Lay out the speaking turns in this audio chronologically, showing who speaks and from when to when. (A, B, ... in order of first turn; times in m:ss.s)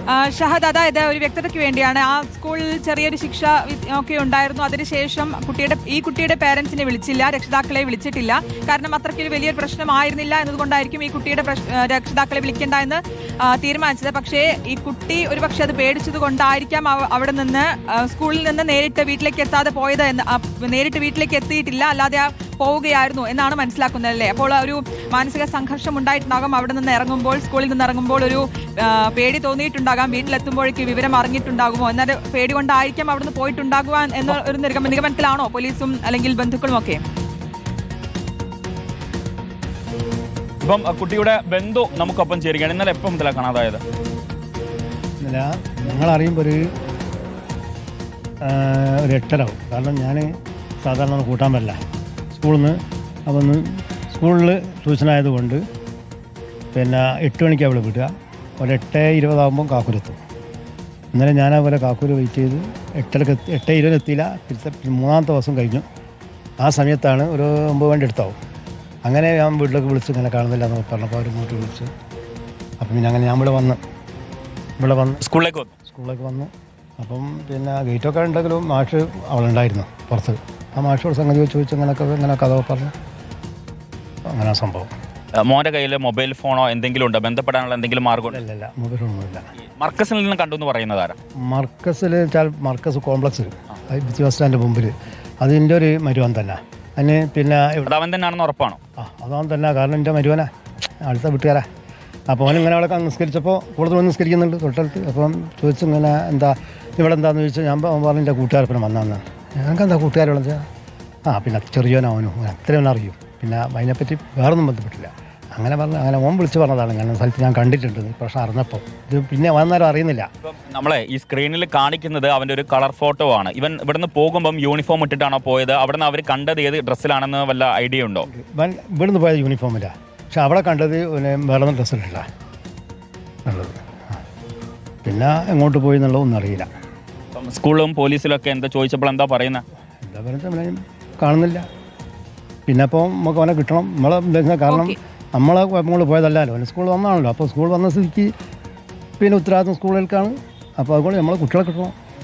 0:00.1-0:37.0 A
0:40.6-0:43.8 B
0:45.2-0:46.6 C
0:48.4-0:51.8 C
0:52.3-0:55.6 C
0:56.7-1:00.2 C
1:01.1-1:05.8 C
1:06.6-1:08.4 C
1:09.0-1:11.9 C
1:12.8-1:13.8 C
1:14.8-1:15.2 C
1:15.2-1:15.7 B
1:15.9-1:22.9 C
1:24.3-1:24.9 C
1:25.4-1:28.4 B
1:28.3-1:29.5 C
1:29.8-1:31.2 B
1:31.5-1:37.9 C
1:37.8-1:38.8 B
1:39.0-1:40.5 C
1:41.0-1:41.6 C
1:42.3-1:50.6 C
1:51.3-2:00.3 C
2:00.4-2:08.3 B
2:08.3-2:12.2 C
2:13.5-2:13.8 C
2:15.0-2:16.7 C
2:17.4-2:19.6 B
2:20.0-2:21.6 C
2:22.7-2:28.3 C
2:24.7-2:25.0 A
2:29.2-2:31.9 C